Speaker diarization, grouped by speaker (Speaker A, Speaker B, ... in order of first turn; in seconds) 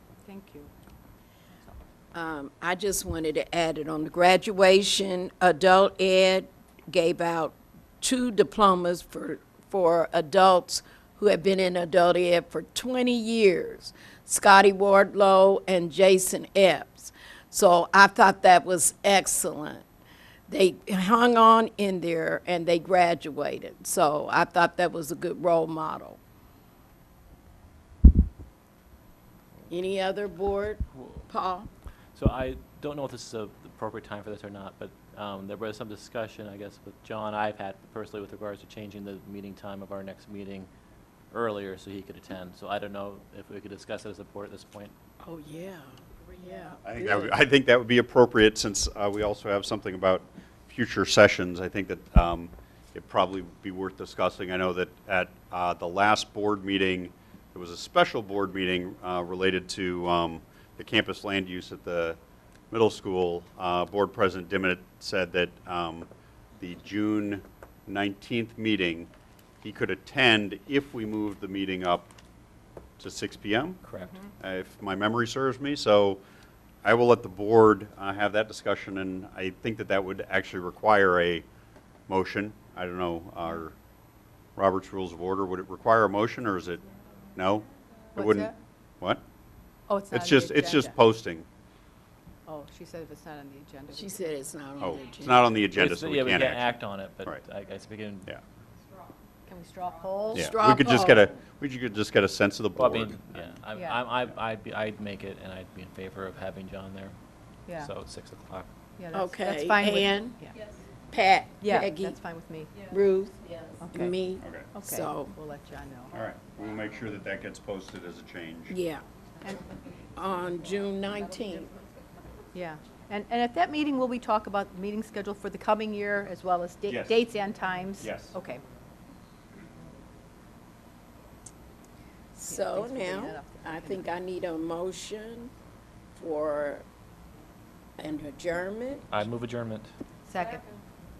Speaker A: 0.2-0.7, 88.1-88.5, 89.9-90.9, 92.5-94.2, 99.5-100.5, 103.7-104.0, 109.0-110.5, 111.6-112.8, 113.8-114.1, 114.7-116.1, 122.5-128.6, 132.5-134.0, 140.3-140.6
Speaker B: 2.1-19.8, 20.5-26.2, 29.7-31.7, 45.2-47.4, 93.9-95.5, 100.3-101.3, 109.1-110.3, 111.1-112.2, 112.9-113.4, 113.9-115.3, 118.7-119.0, 120.2-121.7, 132.3-135.5, 136.1-136.8, 138.0-139.1
Speaker C: 30.9-31.2, 32.1-40.7, 41.3-44.9, 73.8-74.1, 95.7-98.3, 102.8-107.1, 107.8-108.7, 139.1-139.9
Speaker D: 46.8-62.2, 62.7-66.1, 66.6-69.1, 69.6-72.1, 73.0-73.8, 74.4-76.2, 76.8-81.5, 82.1-83.7, 84.5-86.8, 87.3-89.2, 90.1-91.5, 94.8-97.4, 100.3-103.5, 114.4-114.7, 116.1-118.8, 126.9-127.2, 128.0-128.3